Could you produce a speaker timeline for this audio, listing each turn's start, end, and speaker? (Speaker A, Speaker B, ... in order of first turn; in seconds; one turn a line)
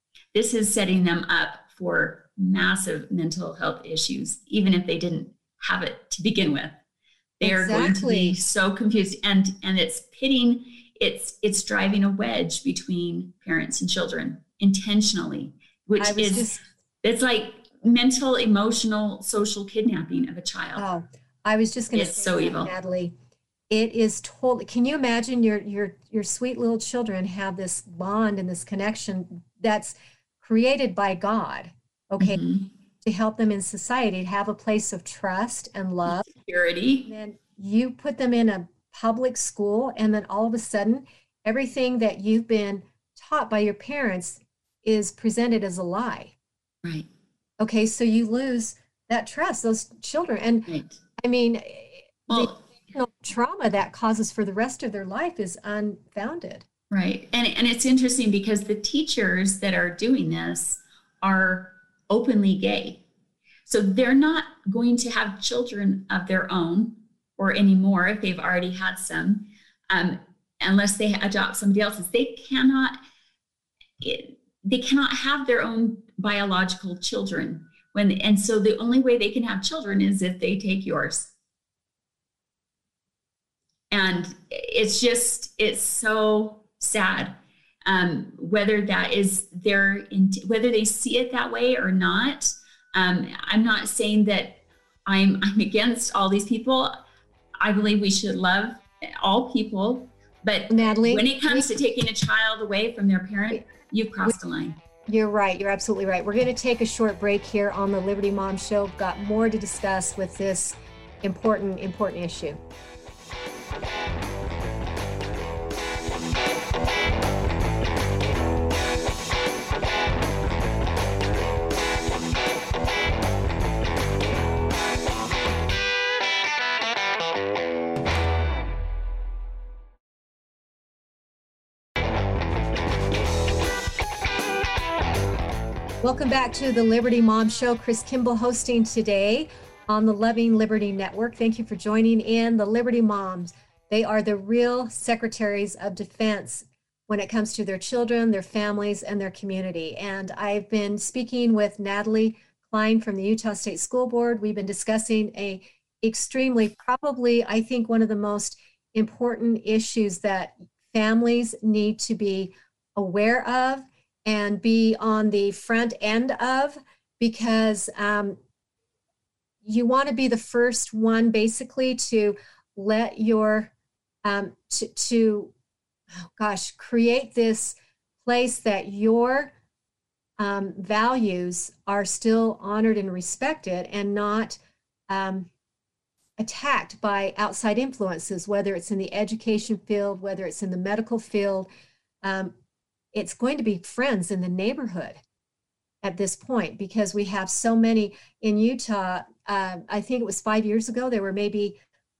Speaker A: 0.3-6.8
Speaker A: 7.4-16.5
Speaker B: 7.4-8.4
Speaker B: 16.0-16.6
Speaker A: 17.0-20.9
Speaker B: 20.8-23.1
Speaker A: 21.9-22.7
Speaker B: 23.7-32.4
Speaker A: 32.2-32.7
Speaker B: 33.0-36.3
Speaker A: 36.1-37.1
Speaker B: 37.1-46.3
Speaker B: 47.6-56.7
Speaker A: 50.7-51.0
Speaker A: 52.3-52.6
Speaker A: 56.9-63.0
Speaker A: 63.7-73.0
Speaker A: 74.0-81.3
Speaker A: 83.9-97.0
Speaker A: 97.6-104.8
Speaker B: 100.7-101.7
Speaker B: 105.1-112.6
Speaker B: 136.0-168.4
Speaker B: 169.6-173.7
Speaker B: 174.2-175.5
Speaker B: 176.4-179.5
Speaker B: 180.4-185.5
Speaker B: 186.4-191.7
Speaker B: 192.2-192.5
Speaker B: 193.1-195.2
Speaker B: 196.0-201.8